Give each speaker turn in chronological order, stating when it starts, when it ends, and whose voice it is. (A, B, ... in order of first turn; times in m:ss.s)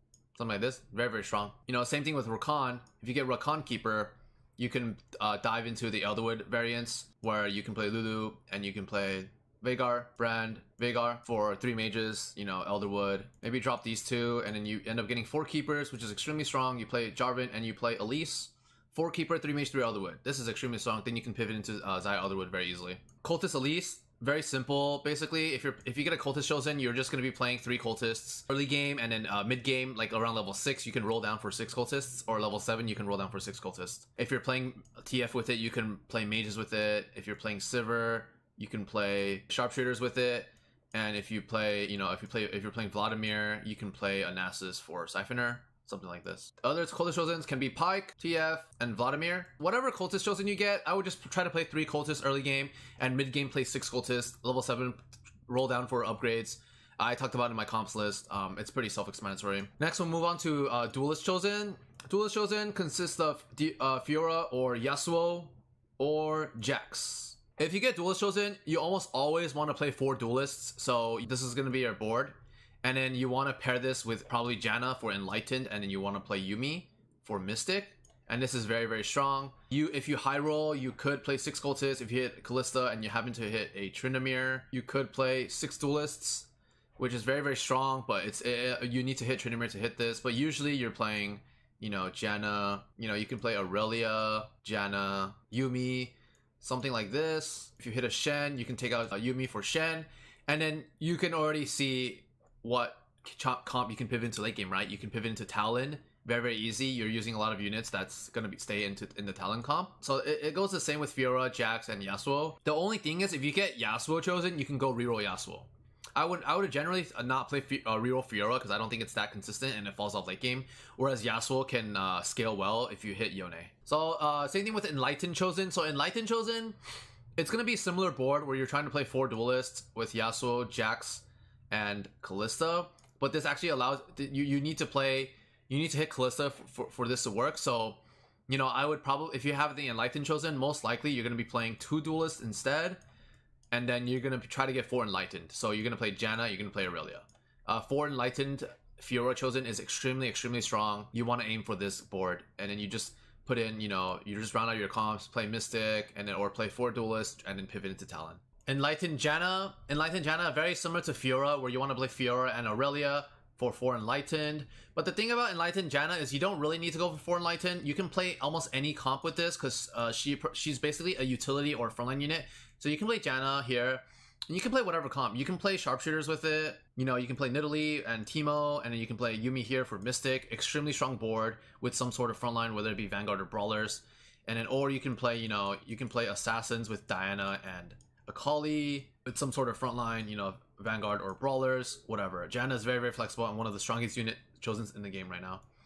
0:00.4-2:06.8 A
2:07.4-2:23.0 A
2:23.7-3:15.6 A